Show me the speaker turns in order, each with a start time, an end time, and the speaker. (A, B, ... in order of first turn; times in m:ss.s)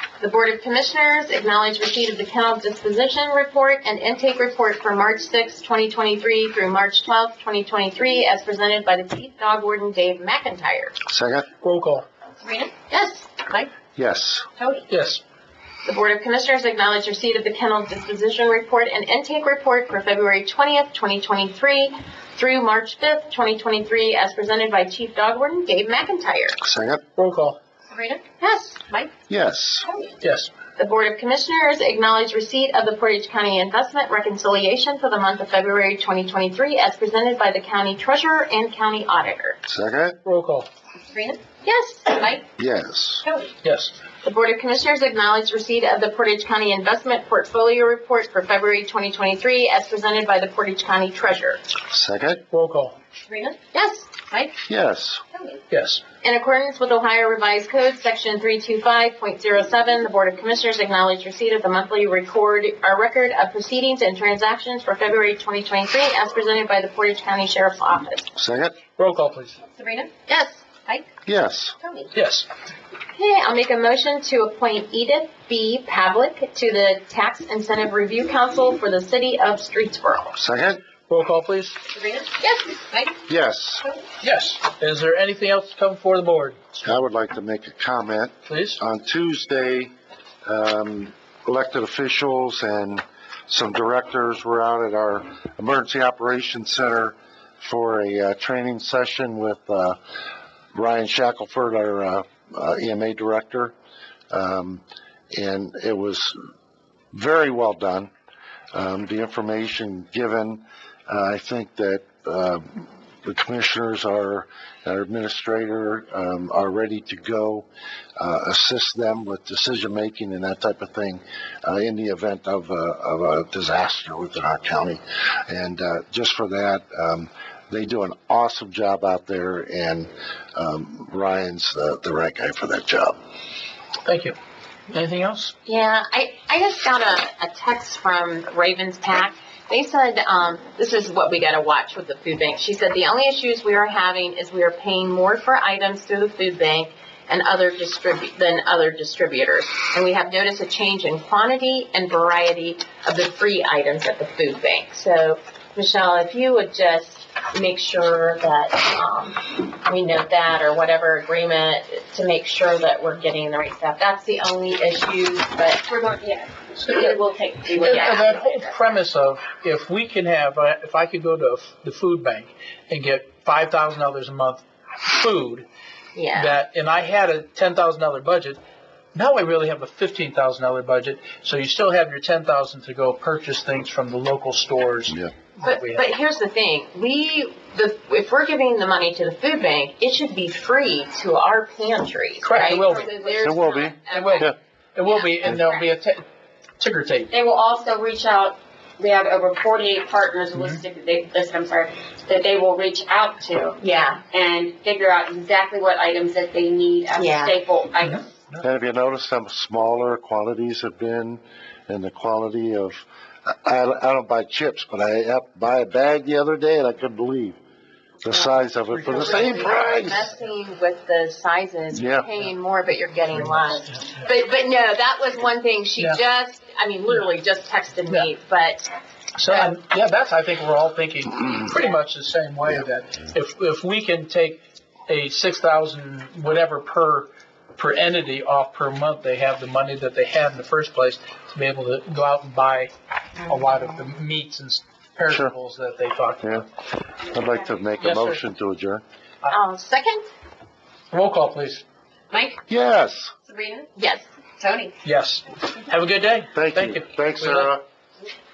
0:00.2-0:11.0 A
0:11.1-0:11.5 B
0:11.6-0:12.0 C
0:12.5-0:13.7 A
0:14.0-0:14.5 B
0:14.6-0:14.8 A
0:14.9-0:15.2 C
0:15.8-0:26.6 A
0:26.6-0:27.0 B
0:27.2-0:27.6 C
0:27.9-0:29.1 A
0:29.3-0:29.9 B
0:29.9-0:30.1 A
0:30.2-0:30.5 C
0:30.8-0:39.6 A
0:39.7-0:40.2 B
0:40.2-0:40.7 C
0:41.1-0:42.4 A
0:42.6-0:43.2 B
0:43.6-0:43.9 C
0:44.2-0:51.6 A
0:51.9-0:52.4 B
0:52.5-0:53.0 C
0:53.3-0:54.5 A
0:54.7-0:55.2 B
0:55.7-0:56.0 C
0:56.2-1:08.3 A
1:08.4-1:08.8 B
1:09.0-1:09.6 C
1:09.8-1:10.1 D
1:10.2-1:11.0 A
1:11.3-1:11.8 B
1:11.8-1:12.1 A
1:12.1-1:12.5 C
1:13.2-1:20.4 A
1:20.4-1:20.8 B
1:21.1-1:21.8 C
1:22.0-1:23.1 A
1:23.3-1:23.9 B
1:24.2-1:27.0 C
1:26.8-1:29.9 B
1:28.5-1:28.8 C
1:30.4-1:40.0 B
1:40.7-1:43.7 B
1:44.3-1:46.4 B
1:47.1-1:48.1 B
1:48.7-1:57.7 B
1:58.2-2:13.2 B
2:14.0-2:14.4 C
2:14.9-2:15.5 C
2:15.7-2:45.9 A
2:45.9-2:48.8 D
2:47.8-2:55.7 C
2:47.8-2:48.3 A
2:56.2-2:56.6 A
2:56.4-2:58.6 C
2:59.1-3:06.1 C
3:05.6-3:14.5 A
3:12.4-3:13.1 C
3:13.4-3:14.5 B
3:14.1-3:16.2 C
3:15.0-3:15.9 A
3:16.8-3:17.3 C
3:17.3-3:23.8 D
3:20.6-3:20.8 C
3:23.8-3:24.2 A
3:24.3-3:28.3 D
3:27.2-3:27.6 A
3:28.0-3:28.6 C
3:28.6-3:33.0 B
3:33.5-3:37.6 B
3:38.2-3:40.3 B
3:38.3-3:48.9 A
3:41.9-3:42.3 B
3:49.4-4:06.6 C
3:49.4-3:49.7 A
4:06.4-4:09.0 B
4:08.0-4:08.4 C
4:09.5-4:10.2 A
4:11.1-4:11.8 C
4:12.7-4:13.3 B
4:13.5-4:13.9 D
4:14.0-4:14.3 A
4:15.0-4:17.7 C
4:16.5-4:17.8 B